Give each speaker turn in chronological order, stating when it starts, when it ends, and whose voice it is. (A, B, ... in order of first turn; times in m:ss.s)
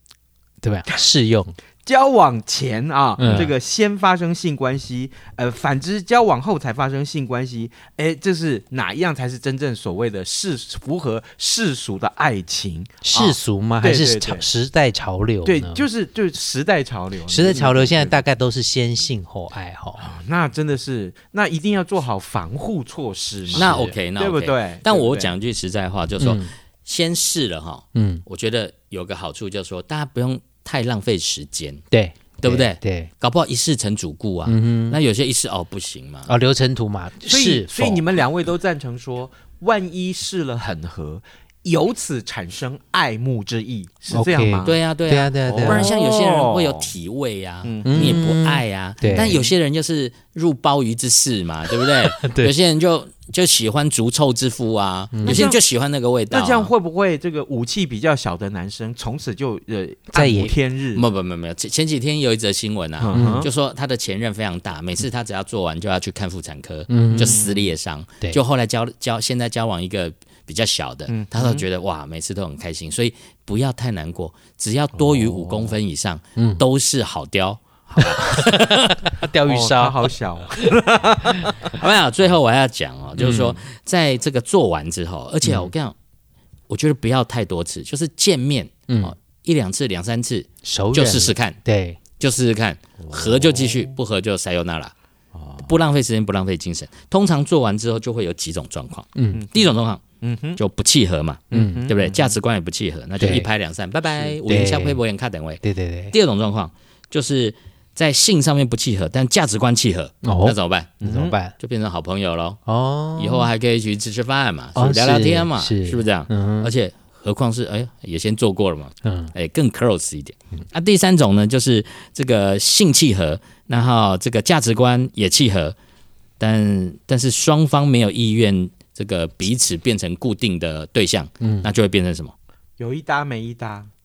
0:00.6-0:01.6 A
0:01.8-0:14.5 B
0:03.2-0:03.5 A
0:13.0-0:15.9 A
0:15.4-0:18.2 B
0:17.3-0:20.0 A
0:20.0-0:25.4 B
0:23.5-0:24.0 A
0:23.5-0:31.8 C
0:26.2-0:26.5 A
0:27.9-0:28.2 A
0:31.9-0:33.1 A
0:32.4-0:36.3 C
0:34.5-0:35.0 A
0:36.3-0:38.0 A
0:37.2-0:44.8 B
0:44.1-0:45.9 A
0:44.6-0:56.7 C
0:45.5-0:46.9 B
0:47.6-0:48.3 B
0:47.8-0:49.4 A
0:52.2-0:52.5 A
0:55.1-0:55.5 A
0:55.2-0:55.6 B
0:56.3-1:01.0 B
1:00.1-1:00.6 A
1:00.9-1:19.2 C
1:03.0-1:03.5 B
1:03.1-1:03.5 A
1:06.9-1:07.4 A
1:07.1-1:07.7 B
1:11.1-1:11.7 B
1:16.4-1:16.6 A
1:19.1-1:20.0 A
1:19.5-1:21.8 B
1:21.7-1:26.0 C
1:23.2-1:23.5 B
1:25.4-1:25.7 A
1:26.7-1:31.6 C
1:28.9-1:29.1 A
1:30.6-1:32.0 A
1:32.2-1:34.9 C
1:33.1-1:33.9 B
1:35.4-1:35.7 B
1:35.6-1:40.0 C
1:39.2-1:39.4 A
1:39.3-1:40.6 B
1:40.6-1:52.6 C
1:41.5-1:42.4 B
1:41.5-1:41.9 A
1:43.2-1:43.5 A
1:44.4-1:45.0 A
1:45.6-1:46.2 A
1:50.2-1:51.5 A
1:51.0-1:51.4 B
1:52.7-1:53.5 A
1:53.2-2:05.8 C
1:54.8-1:56.7 A
1:59.0-1:59.3 A
2:06.4-2:12.3 C
2:11.4-2:11.7 A
2:12.8-2:13.9 B